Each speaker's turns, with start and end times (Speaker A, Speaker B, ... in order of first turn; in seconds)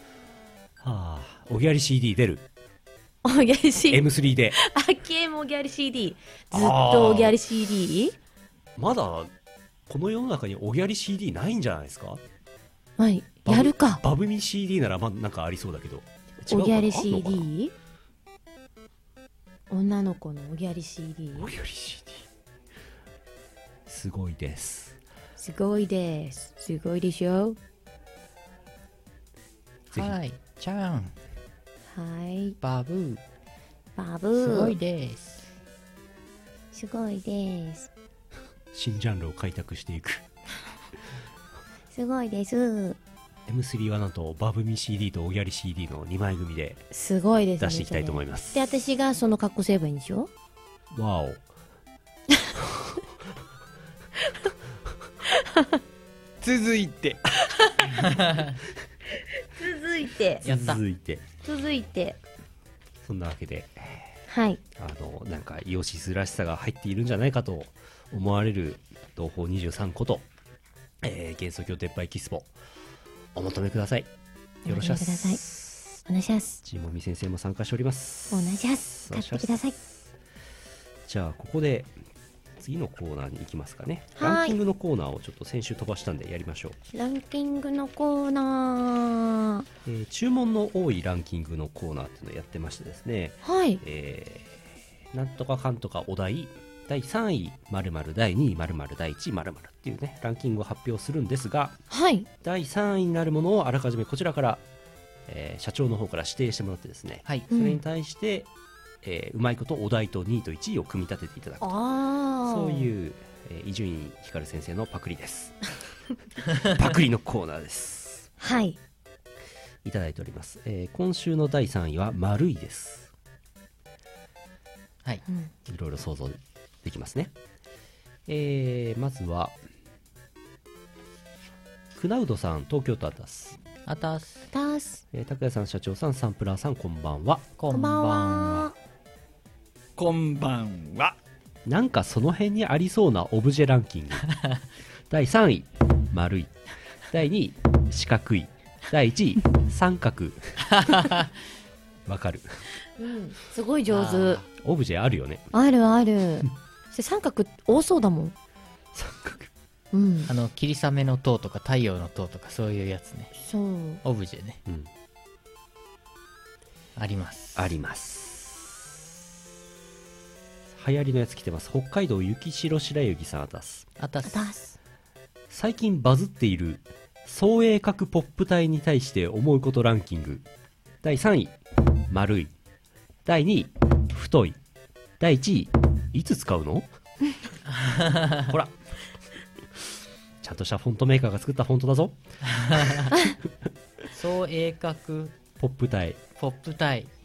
Speaker A: 0.8-2.4, 3.9-4.6, 6.5-7.3, 8.8-9.3, 9.9-12.2, 13.4-17.5, 21.4-22.2, 23.9-25.0, 38.7-40.2, 43.5-46.8, 47.6-48.6, 50.9-51.4, 52.7-53.0, 60.4-61.2, 63.0-64.1, 64.8-70.2, 71.0-72.5, 73.3-74.1, 74.7-75.9, 76.6-79.5, 81.0-81.9, 82.6-86.8, 89.8-94.6, 95.1-101.8, 102.4-104.6, 105.3-108.5, 109.0-111.8, 112.4-115.6, 116.6-118.3, 119.8-123.1, 125.7-127.3, 128.3-129.6, 131.9-133.6, 135.1-137.4, 141.7-144.3, 145.1-150.7, 152.1-152.7, 154.6-155.5, 158.9-159.5, 167.5-168.8, 170.7-173.9, 175.5-180.4, 181.0-181.6, 182.1-182.5, 183.2-184.6, 185.2-186.9, 188.4-188.7, 190.4-192.2, 192.7-193.1, 195.6-196.2
Speaker B: 3.2-8.2, 13.0-14.0, 16.4-17.7, 19.7-21.5, 25.4-27.6, 31.9-32.6, 34.0-34.8, 36.7-37.9, 41.9-43.0, 46.9-50.3, 55.2-55.8, 57.6-57.9, 59.5-60.4, 61.4-62.2, 64.3-64.6, 74.6-75.4, 75.9-76.6, 78.3-79.8, 84.2-84.6, 86.9-89.7, 93.4-93.8, 101.9-102.3, 107.5-107.8, 111.6-112.9, 118.4-118.8, 134.5-135.0, 137.7-138.7, 153.0-154.4, 155.5-158.3, 159.9-160.3, 163.3-164.0, 174.2-174.8
Speaker C: 29.9-31.1, 32.6-33.2, 34.4-35.4, 58.1-58.6, 60.4-60.8, 133.8-134.4, 137.6-138.7, 150.8-151.2, 153.9-154.5, 160.3-163.3, 164.0-164.6, 166.9-167.7, 174.0-174.5, 187.8-188.4, 192.7-193.1, 194.1-195.3, 196.4-197.1
Speaker D: 56.4-57.2, 140.0-141.2